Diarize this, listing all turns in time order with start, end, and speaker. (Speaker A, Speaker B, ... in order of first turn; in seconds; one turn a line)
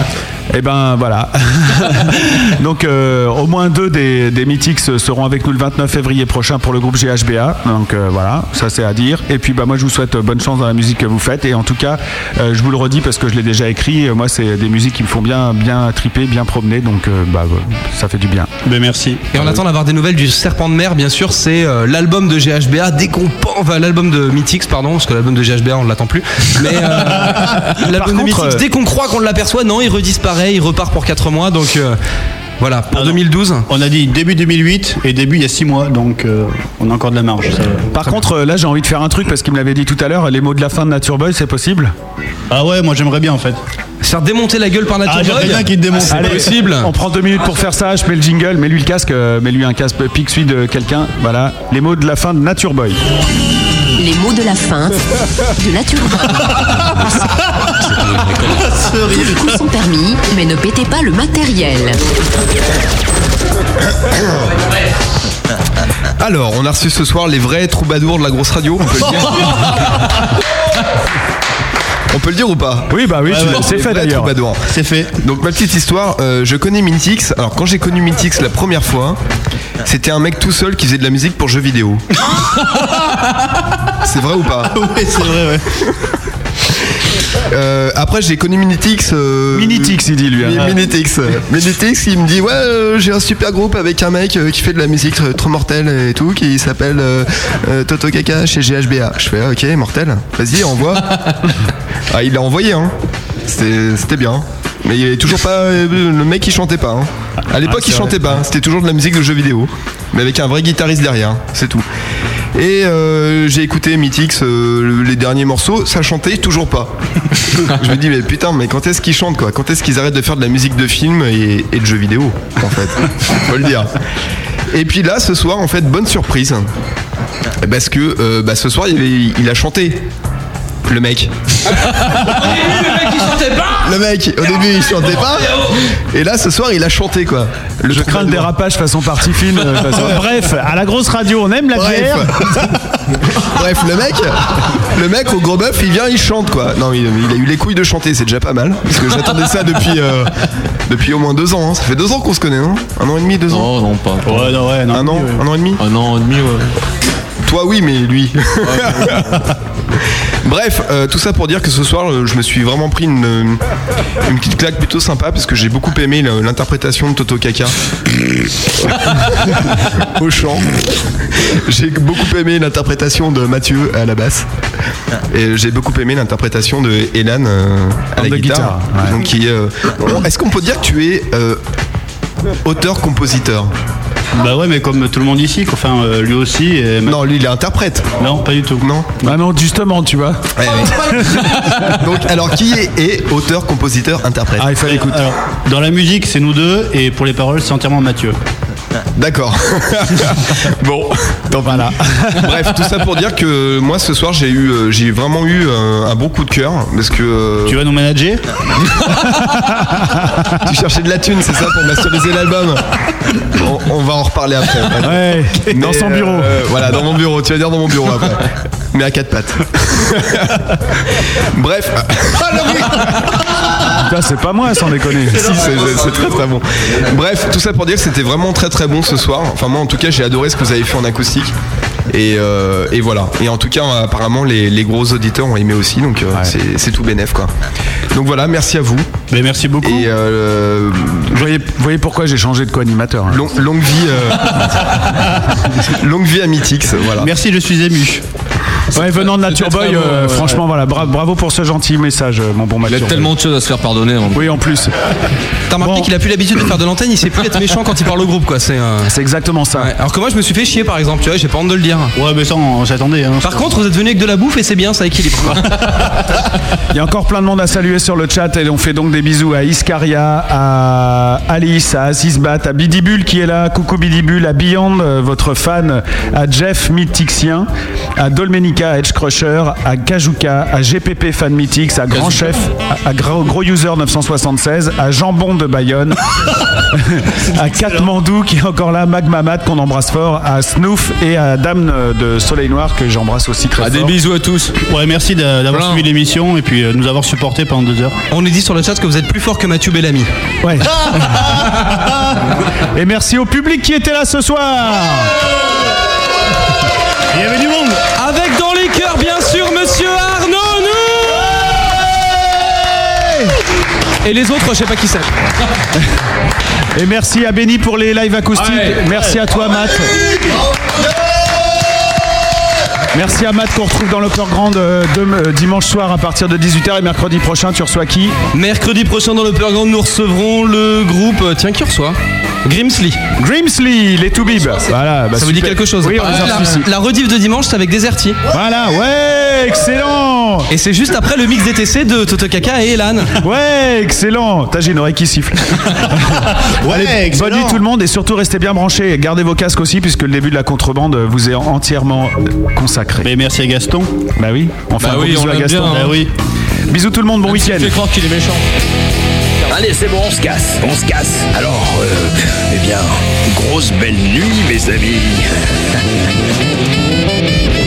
Speaker A: 0.5-18.5
Speaker B: 18.6-19.2
Speaker C: 19.3-32.0
Speaker A: 27.8-28.6
Speaker C: 32.6-33.7
Speaker B: 32.9-38.1
Speaker A: 37.9-41.9
Speaker B: 42.5-43.6
Speaker C: 44.0-46.9
Speaker B: 45.0-46.5
Speaker A: 46.0-53.0
Speaker D: 54.0-56.8
Speaker B: 58.3-59.6
Speaker D: 59.1-62.0
Speaker E: 66.2-69.9
Speaker E: 72.1-74.6
Speaker A: 72.9-74.3
Speaker B: 73.2-73.8
Speaker B: 74.7-75.1
Speaker E: 75.2-79.2
Speaker E: 79.8-82.0
Speaker E: 84.0-84.7
Speaker B: 84.7-85.7
Speaker E: 87.5-101.2
Speaker A: 89.5-90.8
Speaker E: 102.1-102.9
Speaker E: 103.4-111.8
Speaker A: 107.6-108.4
Speaker E: 112.5-116.9
Speaker E: 117.6-123.9
Speaker E: 124.7-126.7
Speaker E: 127.6-130.0
Speaker E: 130.8-131.3
Speaker C: 132.1-133.9
Speaker E: 133.8-138.5
Speaker C: 134.7-135.8
Speaker A: 137.9-142.4
Speaker E: 141.8-142.5
Speaker E: 143.4-153.7
Speaker F: 153.5-154.6
Speaker B: 154.2-155.4
Speaker E: 154.9-155.8
Speaker F: 155.8-156.7
Speaker E: 157.4-159.2
Speaker F: 158.6-159.1
Speaker E: 160.4-163.6
Speaker E: 164.2-167.7
Speaker E: 169.4-170.8
Speaker E: 171.4-174.5
Speaker E: 175.3-181.6
Speaker A: 178.2-179.2
Speaker E: 182.6-183.7
Speaker B: 184.3-187.2
Speaker E: 187.1-188.1
Speaker B: 188.2-188.8
Speaker E: 188.8-189.1
Speaker A: 189.2-191.8
Speaker E: 190.6-194.7
Speaker A: 194.6-195.3
Speaker B: 194.8-198.4
Speaker E: 199.2-207.8
Speaker A: 201.6-202.7
Speaker B: 207.7-208.4
Speaker A: 209.1-210.6
Speaker E: 210.6-212.8
Speaker E: 213.5-220.6
Speaker A: 215.0-216.6
Speaker E: 221.5-223.3
Speaker A: 223.8-225.6
Speaker E: 225.3-231.5
Speaker E: 232.1-237.5
Speaker E: 238.1-239.1
Speaker B: 239.3-240.1
Speaker E: 239.8-241.3
Speaker A: 241.3-243.5
Speaker E: 243.3-245.1
Speaker E: 245.8-247.3
Speaker B: 247.2-248.2
Speaker A: 248.9-253.3
Speaker F: 249.0-250.6
Speaker F: 252.8-254.6
Speaker A: 254.3-254.9
Speaker C: 255.7-259.1
Speaker A: 255.8-256.1
Speaker A: 259.1-259.9
Speaker C: 259.8-262.1
Speaker B: 262.1-263.7
Speaker C: 263.4-265.7
Speaker A: 266.9-286.2
Speaker F: 282.1-282.6
Speaker A: 286.9-294.2
Speaker B: 287.6-288.0
Speaker F: 293.8-294.8
Speaker B: 294.9-298.2
Speaker F: 295.7-296.1
Speaker C: 298.3-300.3
Speaker A: 300.6-301.2
Speaker A: 302.9-305.3
Speaker B: 307.3-308.0
Speaker C: 308.1-311.6
Speaker A: 313.0-313.5
Speaker C: 314.2-315.3
Speaker A: 316.9-320.2
Speaker F: 318.6-318.9
Speaker A: 323.1-328.4
Speaker C: 328.5-333.2
Speaker A: 333.4-336.9
Speaker C: 335.3-338.4
Speaker F: 336.2-336.6
Speaker A: 338.5-340.7
Speaker C: 340.7-343.4
Speaker A: 343.4-353.3
Speaker B: 346.6-347.8
Speaker B: 353.2-354.1
Speaker A: 354.4-356.1
Speaker F: 355.0-356.1
Speaker B: 355.7-356.3
Speaker A: 356.9-357.9
Speaker F: 357.4-358.6
Speaker G: 359.7-365.7